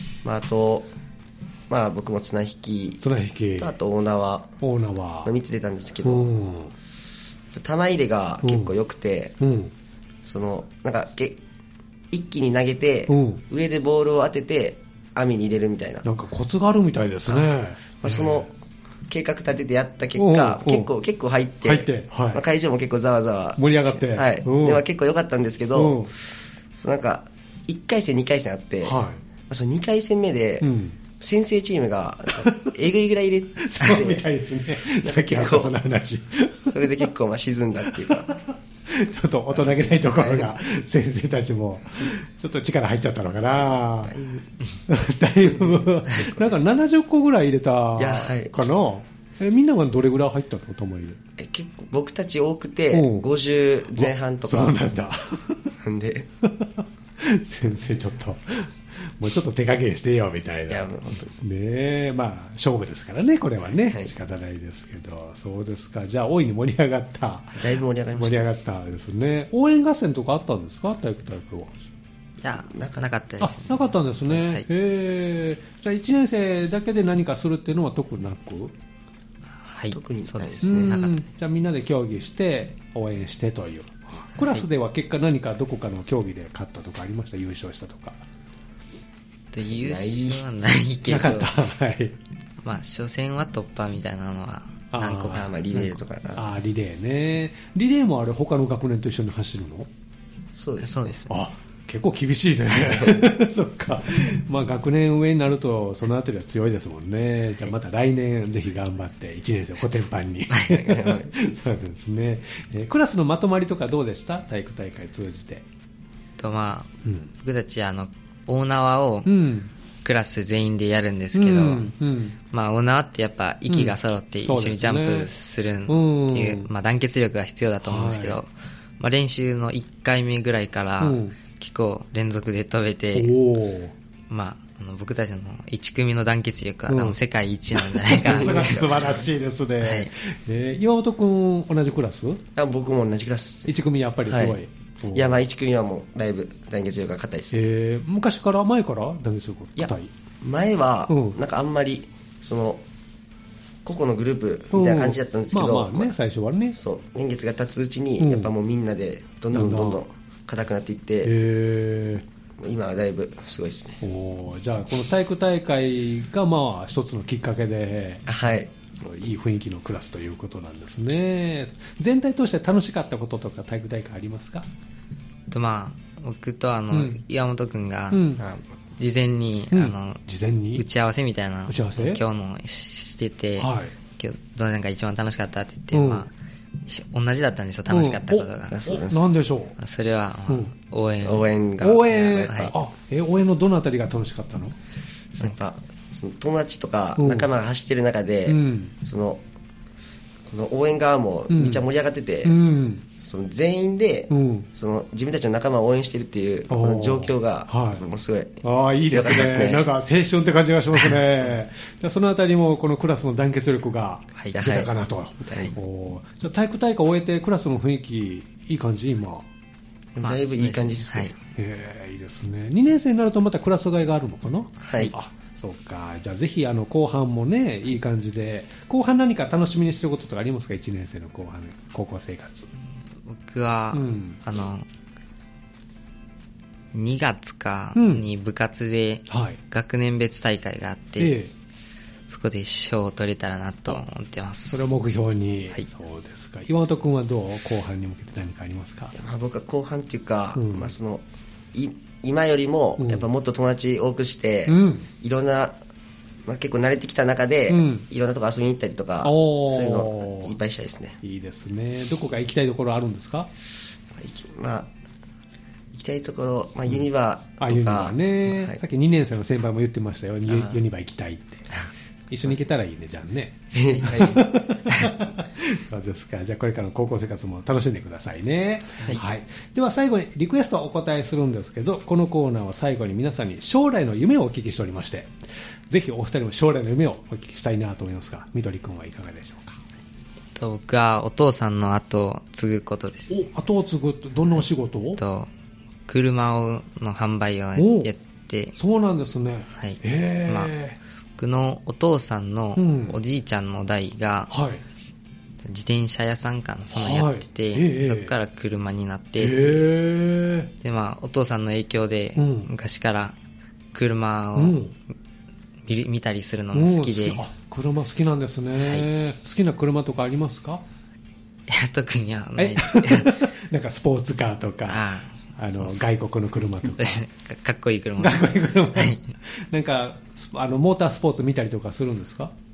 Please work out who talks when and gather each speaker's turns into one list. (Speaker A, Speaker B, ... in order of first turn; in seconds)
Speaker A: 0.2-0.9, 1.7-3.0, 3.6-4.5, 5.2-6.3, 7.5-9.3, 10.2-11.4, 12.1-16.1, 18.0-18.5, 19.1-26.1, 26.7-28.9, 29.5-34.2, 34.9-35.7, 36.7-38.4, 39.6-40.5, 44.0-44.5, 46.1-46.5, 48.0-48.5, 51.4-54.8, 55.8-56.3, 60.7-61.3, 67.6-68.5, 72.6-73.0, 79.9-81.0, 89.7-90.4, 95.3-96.5, 100.6-101.2, 102.8-103.2, 110.7-111.3, 138.2-139.1, 142.6-143.7, 144.3-144.6, 145.1-147.6, 149.8-152.8, 153.8-156.1, 156.8-161.3, 162.6-164.0, 168.3-168.7, 188.7-189.2, 191.2-192.7, 195.3-199.4, 200.5-202.6, 203.2-209.9, 214.5-214.9, 215.4-215.7, 220.2-221.3, 224.8-225.1, 249.1-251.2, 251.7-255.8, 256.4-261.2, 264.1-264.9, 265.9-268.8, 270.5-270.8, 273.7-274.5
Speaker B: 3.0-3.8, 4.6-5.3, 6.0-6.7, 8.4-8.7, 9.4-9.7, 13.1-13.4, 16.0-18.5, 20.1-20.9, 21.6-22.4, 23.6-24.8, 25.7-26.1, 28.8-29.2, 30.6-31.0, 32.3-32.7, 33.6-37.1, 37.9-44.2, 44.9-51.2, 52.9-53.2, 53.9-55.7, 56.4-71.7, 73.4-78.8, 80.6-88.2, 91.0-92.2, 94.9-99.9, 101.3-115.6, 117.0-117.3, 119.2-119.7, 121.3-122.4, 123.7-125.3, 125.9-126.7, 127.8-128.4, 131.0-131.3, 133.1-133.9, 136.9-137.2, 137.8-142.4, 143.7-145.4, 147.5-150.1, 151.1-151.4, 154.7-156.8, 158.2-158.5, 159.5-160.0, 161.2-162.2, 164.0-168.3, 169.0-174.7, 176.9-177.2, 178.1-178.4, 179.7-180.8, 181.7-182.2, 183.6-183.9, 185.9-186.3, 187.9-189.7, 191.8-194.7, 197.2-197.5, 198.5-198.9, 201.5-201.9, 202.4-203.0, 204.3-204.7, 206.7-208.0, 208.6-219.5, 221.6-232.7, 233.9-234.4, 237.9-238.2, 239.3-239.6, 241.2-241.5, 244.7-249.1, 250.5-250.9, 253.0-253.3, 254.7-255.1, 257.7-258.0, 259.2-260.5, 261.2-263.5, 267.6-271.7, 272.3-285.3, 285.9-289.8, 293.3-295.2, 297.8-298.1, 298.8-301.0, 302.8-303.2, 304.5-304.8, 306.9-308.4, 309.4-310.7, 312.4-312.7, 314.6-314.9, 316.7-320.8, 322.6-327.2, 328.2-332.5
Speaker C: 72.4-74.6, 79.6-81.2, 89.5-91.5, 92.6-95.4, 100.8-101.3, 116.4-119.3, 120.0-121.9, 122.5-133.3, 134.3-139.2, 139.8-140.1, 175.5-178.3, 179.0-180.2, 180.7-186.3, 186.8-188.9, 189.8-191.5, 220.2-221.3, 233.1-234.8, 236.9-241.3, 242.3-244.8, 273.9-274.2, 274.9-275.1, 290.5-293.4, 295.2-295.5, 296.1-298.8, 299.7-300.7, 301.4-304.5, 305.7-309.9, 310.8-313.4, 313.9-314.8, 315.8-317.4, 321.7-323.4, 324.9-326.0, 327.0-329.2